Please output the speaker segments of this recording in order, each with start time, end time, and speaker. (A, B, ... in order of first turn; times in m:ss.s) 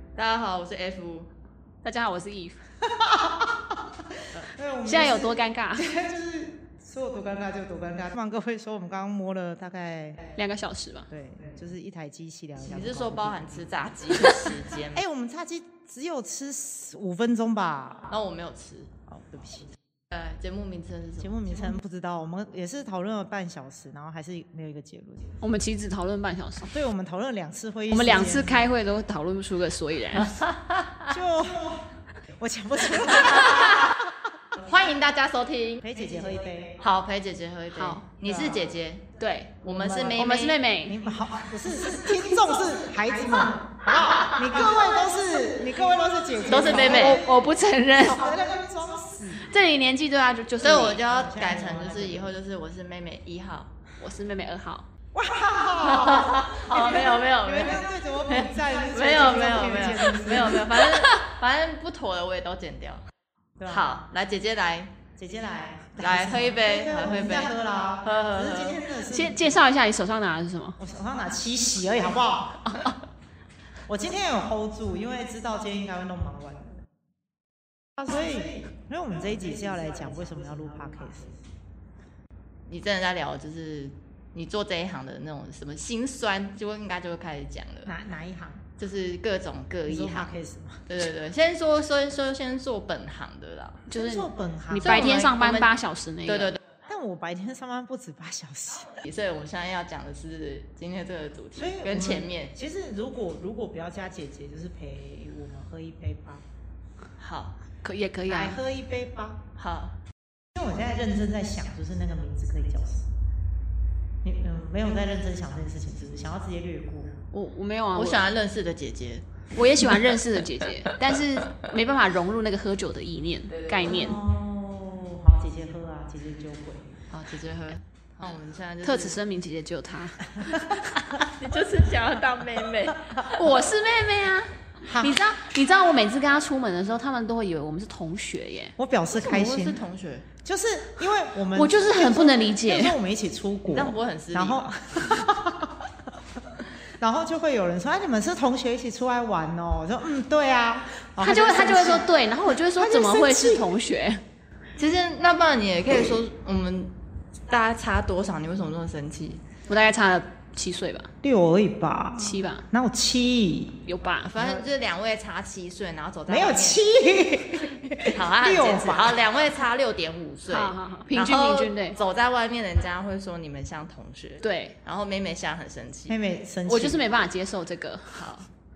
0:00.2-0:01.3 A
0:01.8-0:02.6 B
0:02.8-0:10.2 C
0:04.8-0:05.9 B
0:10.4-0:11.1 B
0:11.1-0:18.1 C
0:12.6-0:15.0 A
0:18.1-0:18.9 A
0:19.1-0:19.8 C
0:20.1-0:21.8 A
0:21.2-0:25.4 C
0:25.4-0:26.7 B
0:26.7-0:28.7 C
0:27.9-0:30.4 B
0:30.2-0:31.2 A
0:31.1-0:34.6 C
0:33.1-0:33.9 A
0:34.6-0:35.8 A
0:35.8-0:36.8 C
0:36.8-0:40.6 A
0:37.7-0:38.0 B
0:38.2-0:38.7 C
0:39.2-0:39.5 B
0:39.7-0:40.3 C
0:40.2-0:41.0 B
0:40.9-0:47.3 C
0:43.9-0:47.2 A
0:46.8-0:48.3 B
0:48.0-0:49.5 C
0:49.3-0:51.0 B
0:50.6-0:53.7 A
0:51.0-0:52.3 C
0:54.0-0:54.9 B
0:55.1-1:00.8 C
0:55.8-1:03.0 A
1:00.6-1:01.2 B
1:03.6-1:04.0 C
1:03.7-1:04.9 A
1:05.2-1:09.5 C
1:06.0-1:08.9 A
1:09.1-1:10.8 B
1:10.8-1:12.8 C
1:13.9-1:16.8 C
1:18.0-1:21.4 C
1:22.7-1:27.9 A
1:27.9-1:28.7 C
1:28.8-1:30.3 A
1:29.8-1:30.8 C
1:30.9-1:33.8 A
1:33.9-1:36.6 B
1:33.9-1:35.2 C
1:34.8-1:35.7 A
1:36.3-1:36.6 A
1:36.8-1:39.0 C
1:39.0-1:42.5 A
1:41.6-1:46.4 C
1:47.2-1:47.6 A
1:47.8-1:48.6 B
1:48.3-1:49.4 C
1:49.6-1:50.0 A
1:50.6-1:53.1 C
1:54.2-1:57.1 C
1:57.3-1:58.2 B
1:58.0-1:59.2 A
1:59.6-2:04.2 B
2:03.5-2:04.0 A
2:03.8-2:07.0 C
2:07.1-2:09.2 A
2:08.8-2:10.9 B
2:10.4-2:10.8 C
2:11.2-2:13.5 A
2:13.3-2:18.8 B
2:14.8-2:15.2 C
2:18.8-2:19.8 C
2:19.1-2:20.3 A
2:20.4-2:26.2 C
2:21.5-2:23.0 B
2:23.7-2:24.7 A
2:26.9-2:32.1 C
2:31.2-2:34.2 B
2:32.7-2:33.7 C
2:34.8-2:36.9 A
2:37.5-2:39.4 A
2:39.7-2:41.1 B
2:41.2-2:43.8 C
2:42.2-2:42.7 B
2:43.9-2:44.3 B
2:44.3-2:46.8 A
2:44.4-2:44.6 C
2:46.3-2:49.2 C
2:48.1-2:56.2 A
2:50.5-2:52.0 B
2:54.4-2:54.8 B
2:56.1-2:57.0 C
2:56.7-2:58.5 B